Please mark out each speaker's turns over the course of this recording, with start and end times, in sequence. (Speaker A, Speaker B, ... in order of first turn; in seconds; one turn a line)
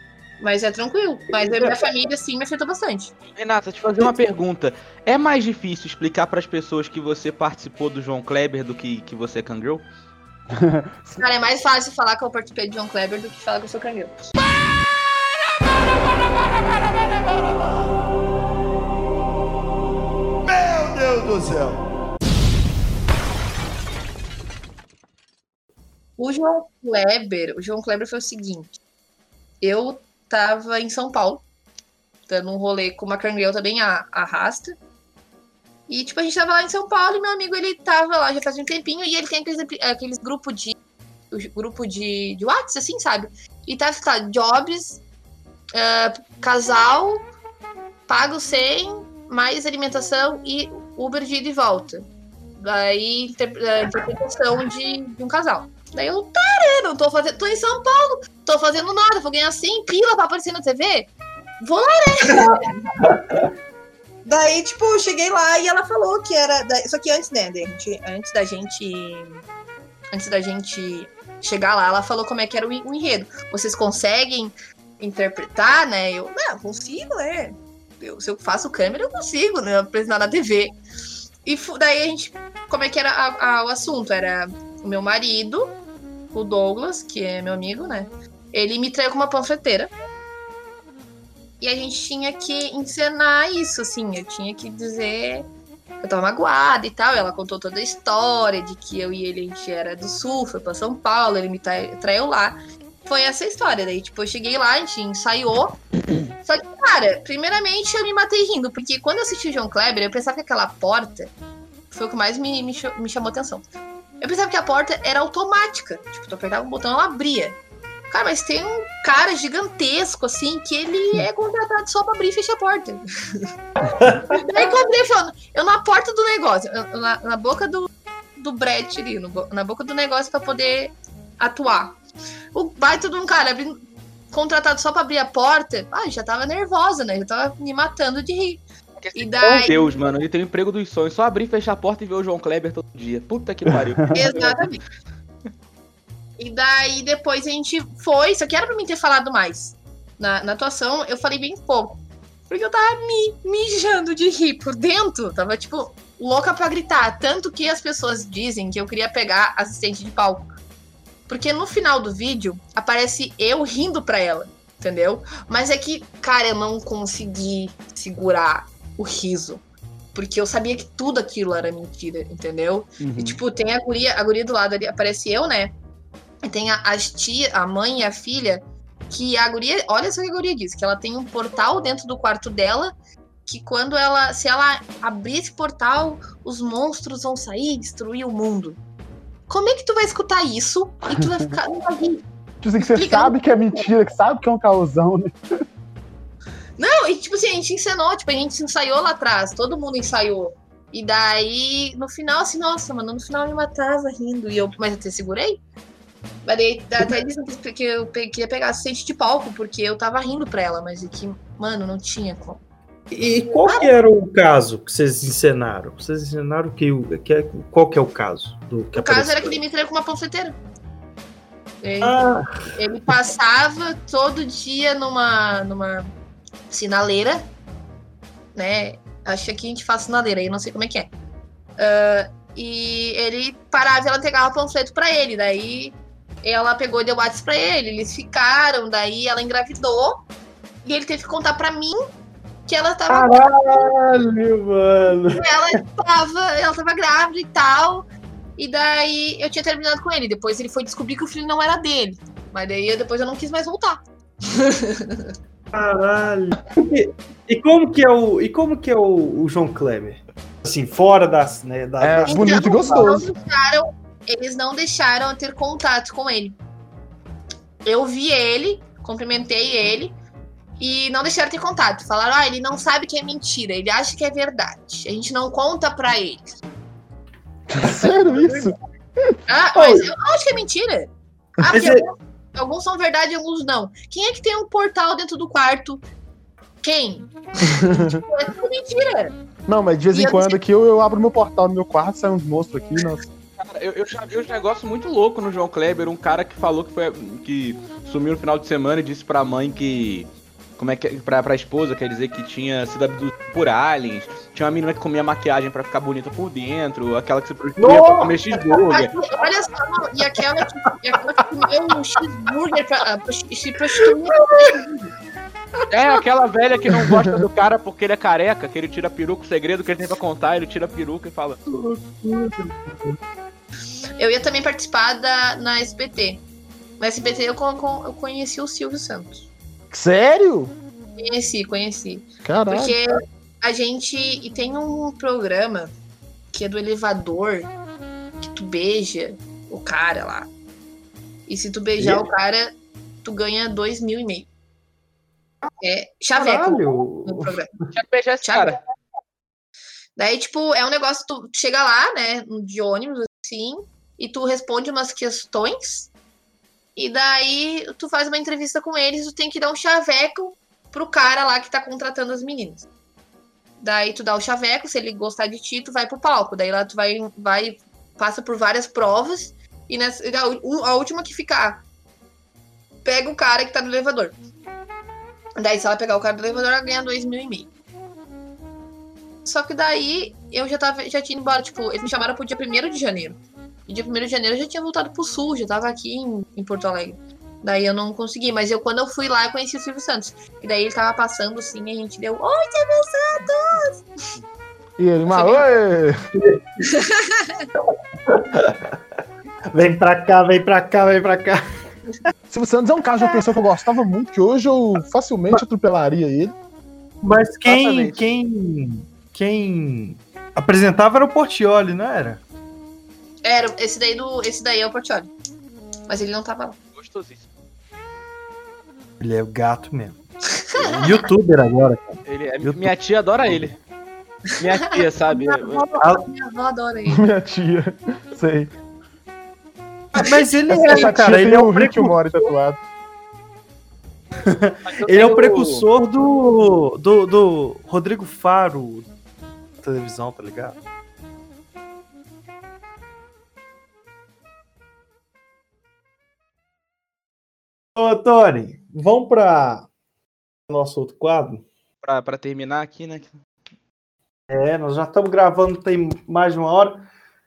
Speaker A: 0.4-3.1
Speaker B: 1.3-1.7
Speaker C: 3.4-9.8
Speaker D: 10.5-11.2
Speaker A: 11.2-14.3
Speaker B: 20.5-21.8
Speaker A: 26.2-28.7
Speaker A: 29.6-31.4
Speaker A: 32.3-34.8
Speaker A: 35.9-40.8
Speaker A: 41.3-45.0
Speaker A: 45.7-47.2
Speaker A: 48.1-52.1
Speaker A: 52.6-63.0
Speaker B: 62.4-63.2
Speaker A: 64.3-69.4
Speaker A: 70.1-80.7
Speaker A: 81.4-85.8
Speaker A: 86.3-89.9
Speaker A: 91.6-95.5
Speaker A: 96.0-111.3
Speaker A: 111.9-113.6
Speaker A: 114.2-117.6
Speaker A: 118.1-123.5
Speaker B: 123.8-124.7
Speaker A: 124.3-132.0
Speaker A: 132.5-133.8
Speaker A: 134.3-138.6
Speaker C: 139.0-144.6
Speaker A: 139.1-140.0
Speaker D: 143.7-144.2
Speaker A: 144.1-144.8
Speaker A: 146.4-160.5
Speaker A: 161.3-169.6
Speaker A: 170.1-175.7
Speaker A: 176.4-182.9
Speaker A: 183.4-188.8
Speaker A: 189.5-192.2
Speaker D: 192.6-195.4
Speaker A: 192.8-193.8
Speaker A: 196.8-205.6
Speaker A: 206.4-212.6
Speaker B: 213.1-219.5
Speaker A: 213.7-213.9
Speaker A: 218.9-220.6
Speaker A: 221.8-226.1
Speaker B: 222.0-222.6
Speaker A: 226.7-227.5
Speaker A: 228.6-231.1
Speaker A: 231.8-240.2
Speaker A: 240.8-242.0
Speaker A: 242.7-243.4
Speaker B: 243.1-245.8
Speaker A: 245.3-255.3
Speaker B: 255.7-263.3
Speaker D: 262.0-263.2
Speaker A: 262.2-266.6
Speaker A: 267.8-270.1
Speaker A: 270.8-276.6
Speaker D: 277.7-279.4
Speaker A: 278.0-278.7
Speaker A: 279.5-286.0
Speaker B: 279.8-280.1
Speaker B: 281.7-282.1
Speaker A: 286.8-289.4
Speaker D: 287.6-288.2
Speaker D: 289.7-293.3
Speaker A: 290.1-290.6
Speaker C: 293.6-309.1
Speaker B: 307.8-308.7
Speaker A: 308.9-314.8
Speaker B: 314.0-314.8
Speaker C: 315.9-321.6
Speaker B: 316.9-317.2
Speaker B: 321.7-323.1
Speaker A: 324.2-326.4
Speaker A: 327.0-329.4
Speaker D: 329.9-330.7
Speaker A: 331.2-335.9
Speaker D: 332.4-333.0
Speaker A: 336.5-337.7
Speaker A: 338.4-340.5
Speaker A: 341.5-344.5
Speaker B: 342.0-342.2
Speaker A: 345.8-347.7
Speaker B: 346.3-347.6
Speaker C: 347.9-348.8
Speaker A: 348.4-348.8
Speaker A: 350.2-356.1
Speaker A: 356.9-362.9
Speaker A: 363.8-371.8
Speaker A: 373.1-374.4
Speaker A: 375.6-377.7
Speaker A: 379.4-394.0
Speaker D: 395.0-396.2
Speaker A: 395.3-395.6
Speaker A: 396.9-397.6
Speaker B: 398.3-398.8
Speaker B: 399.7-401.6
Speaker D: 402.5-406.5
Speaker B: 407.2-412.4
Speaker C: 407.6-408.2
Speaker A: 413.4-415.3
Speaker A: 416.1-416.8
Speaker C: 416.9-417.4
Speaker B: 419.2-420.2
Speaker A: 420.7-421.1
Speaker B: 420.8-422.9
Speaker C: 422.2-423.8
Speaker C: 424.6-425.8
Speaker A: 425.3-427.2
Speaker D: 427.1-428.7
Speaker B: 430.1-432.3
Speaker D: 430.7-432.8
Speaker B: 434.4-439.1
Speaker C: 434.9-435.9
Speaker B: 439.8-440.8
Speaker B: 447.9-449.9
Speaker B: 450.7-451.6
Speaker C: 452.0-453.4
Speaker B: 454.5-457.1